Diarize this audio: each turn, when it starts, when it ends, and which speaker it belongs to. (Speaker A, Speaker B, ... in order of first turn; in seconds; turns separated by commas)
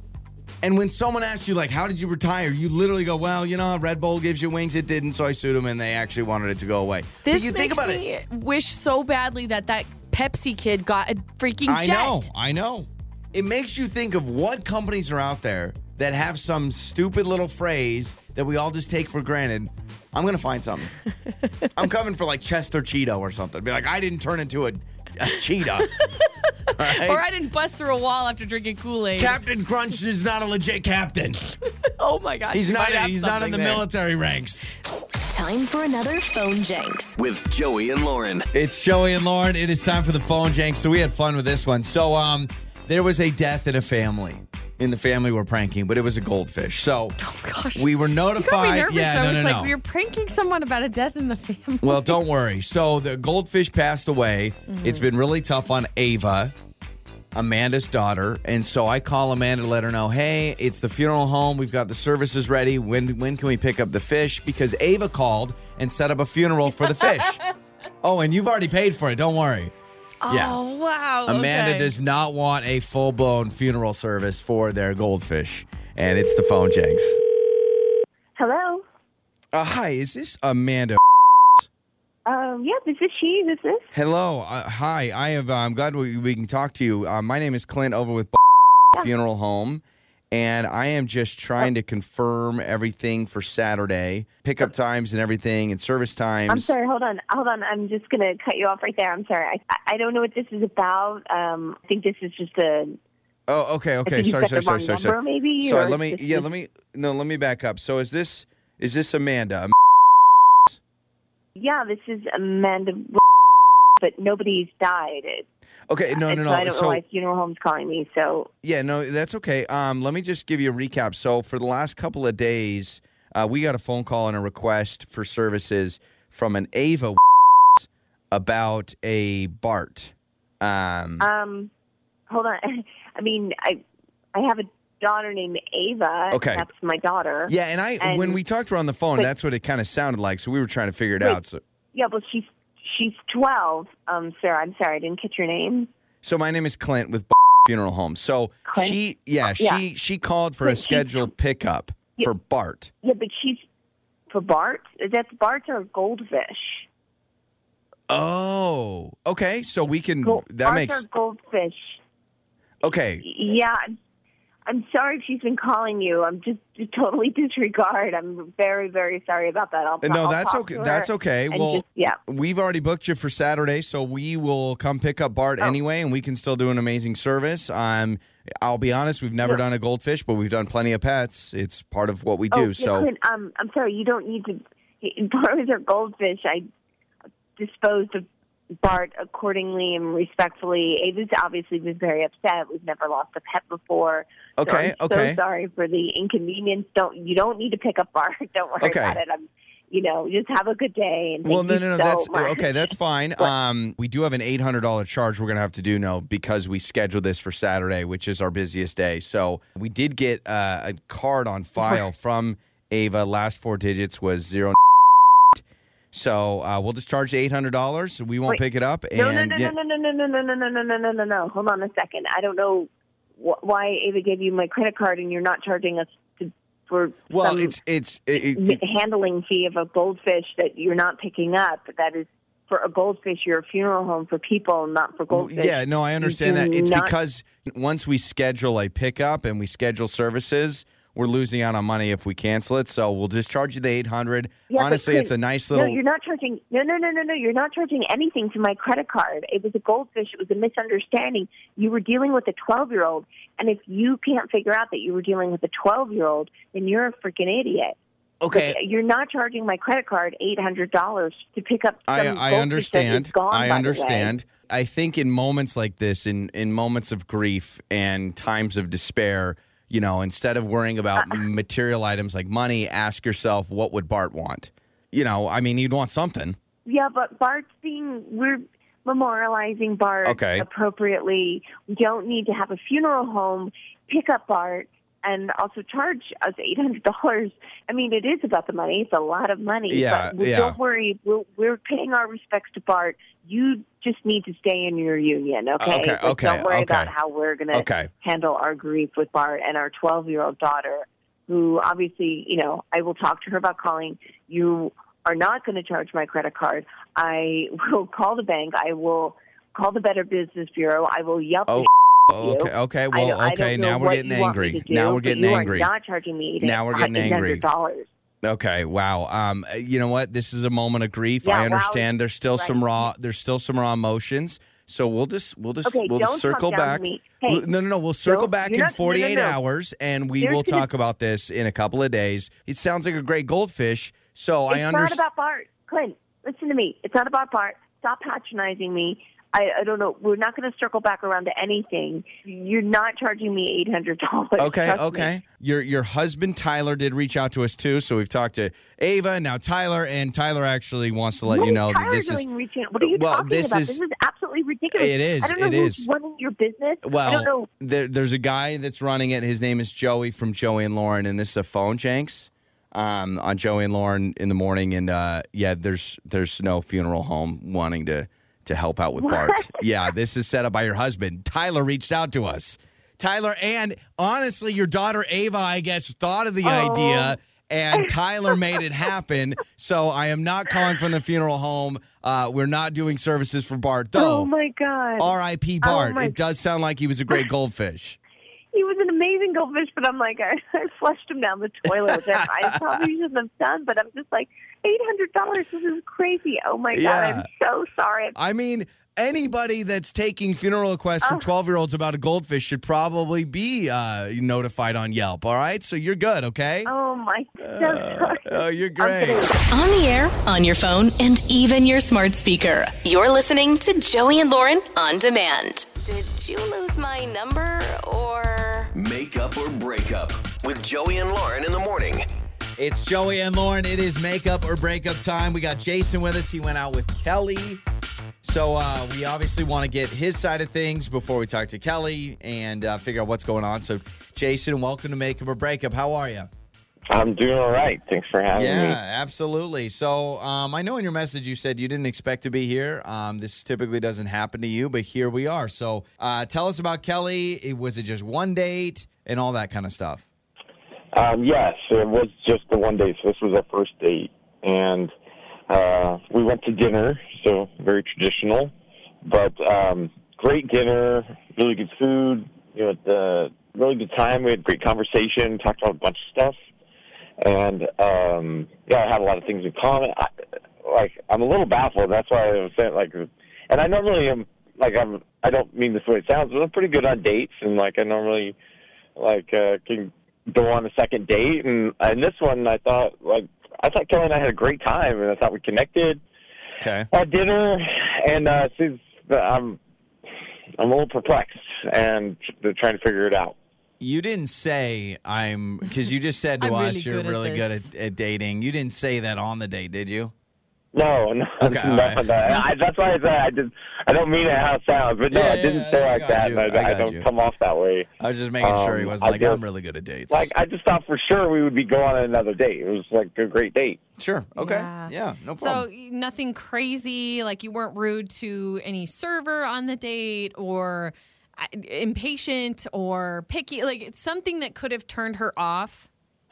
Speaker A: 0.6-8.0, Speaker B: 7.2-12.3, Speaker A: 11.7-20.9, Speaker A: 21.7-25.9, Speaker B: 25.9-29.4, Speaker A: 26.8-27.2, Speaker A: 29.1-31.4, Speaker B: 31.8-33.8, Speaker A: 32.5-34.7, Speaker C: 35.2-37.1, Speaker D: 37.2-38.5, Speaker A: 38.5-47.2, Speaker B: 47.2-52.2, Speaker A: 47.7-49.7, Speaker A: 51.8-56.5, Speaker B: 54.7-55.0, Speaker A: 57.3-67.4, Speaker B: 67.0-67.3, Speaker A: 68.0-69.7, Speaker B: 70.2-71.9, Speaker A: 70.3-70.6, Speaker A: 71.2-77.2, Speaker E: 78.3-78.8, Speaker A: 79.5-81.0, Speaker E: 82.2-83.8, Speaker A: 83.9-88.4, Speaker A: 88.9-96.7, Speaker E: 96.5-103.0, Speaker A: 103.5-109.7, Speaker E: 104.0-106.5, Speaker E: 111.5-113.2, Speaker E: 114.0-115.4, Speaker A: 115.9-117.0, Speaker E: 116.1-118.5, Speaker A: 118.6-127.2, Speaker A: 127.7-131.3, Speaker E: 131.2-131.7, Speaker E: 132.3-138.4, Speaker A: 136.3-136.7, Speaker A: 137.5-141.6, Speaker E: 141.9-145.9, Speaker A: 146.2-152.9, Speaker E: 148.7-149.8, Speaker E: 150.6-151.3, Speaker E: 153.0-153.6, Speaker E: 154.3-156.8, Speaker A: 158.1-161.0, Speaker E: 160.2-162.0, Speaker A: 162.8-163.2, Speaker E: 163.2-163.8, Speaker E: 164.7-172.2, Speaker A: 170.0-183.1, Speaker E: 182.5-186.7, Speaker E: 187.6-188.3, Speaker E: 188.8-203.5, Speaker A: 194.6-195.4, Speaker A: 198.8-199.2, Speaker A: 201.4-214.8, Speaker A: 215.5-219.7, Speaker E: 219.1-227.7, Speaker A: 227.3-228.8, Speaker E: 228.3-237.1, Speaker A: 235.3-246.0, Speaker E: 244.7-258.0, Speaker A: 258.4-258.8, Speaker E: 258.5-264.3, Speaker A: 262.1-276.6, Speaker E: 276.9-318.1, Speaker A: 280.2-280.7, Speaker A: 289.9-290.8, Speaker A: 295.8-297.1, Speaker A: 297.7-298.1, Speaker A: 311.7-315.9, Speaker A: 316.6-317.6, Speaker A: 318.4-335.2, Speaker E: 321.4-323.1, Speaker E: 325.8-327.6, Speaker E: 328.2-329.6, Speaker E: 330.4-330.9, Speaker E: 334.7-345.3, Speaker A: 344.6-352.4, Speaker E: 351.4-357.7, Speaker A: 353.0-354.0, Speaker A: 354.9-356.1, Speaker A: 357.0-384.5, Speaker E: 369.2-369.8, Speaker E: 376.6-377.4, Speaker E: 384.1-386.4, Speaker A: 385.2-388.2, Speaker E: 388.7-398.4, Speaker A: 391.9-393.1, Speaker A: 396.9-397.5, Speaker A: 398.3-406.9, Speaker E: 401.2-401.5, Speaker E: 406.9-409.6, Speaker A: 407.6-409.5, Speaker C: 409.7-418.9, Speaker D: 418.9-422.2, Speaker A: 422.8-427.8, Speaker A: 428.4-436.5, Speaker F: 437.1-439.0, Speaker A: 438.5-450.2, Speaker F: 451.1-455.1, Speaker F: 455.7-458.7, Speaker F: 459.2-466.6, Speaker F: 467.4-470.3, Speaker F: 470.8-478.6, Speaker F: 479.2-486.2, Speaker A: 486.8-487.1, Speaker F: 487.1-489.8, Speaker F: 490.8-493.6, Speaker A: 494.0-500.3, Speaker B: 496.6-497.9, Speaker F: 500.9-508.1, Speaker A: 501.6-502.6, Speaker A: 505.3-507.3, Speaker A: 508.2-510.5, Speaker F: 508.6-509.6, Speaker F: 510.3-514.0, Speaker A: 514.2-515.9, Speaker B: 514.5-526.1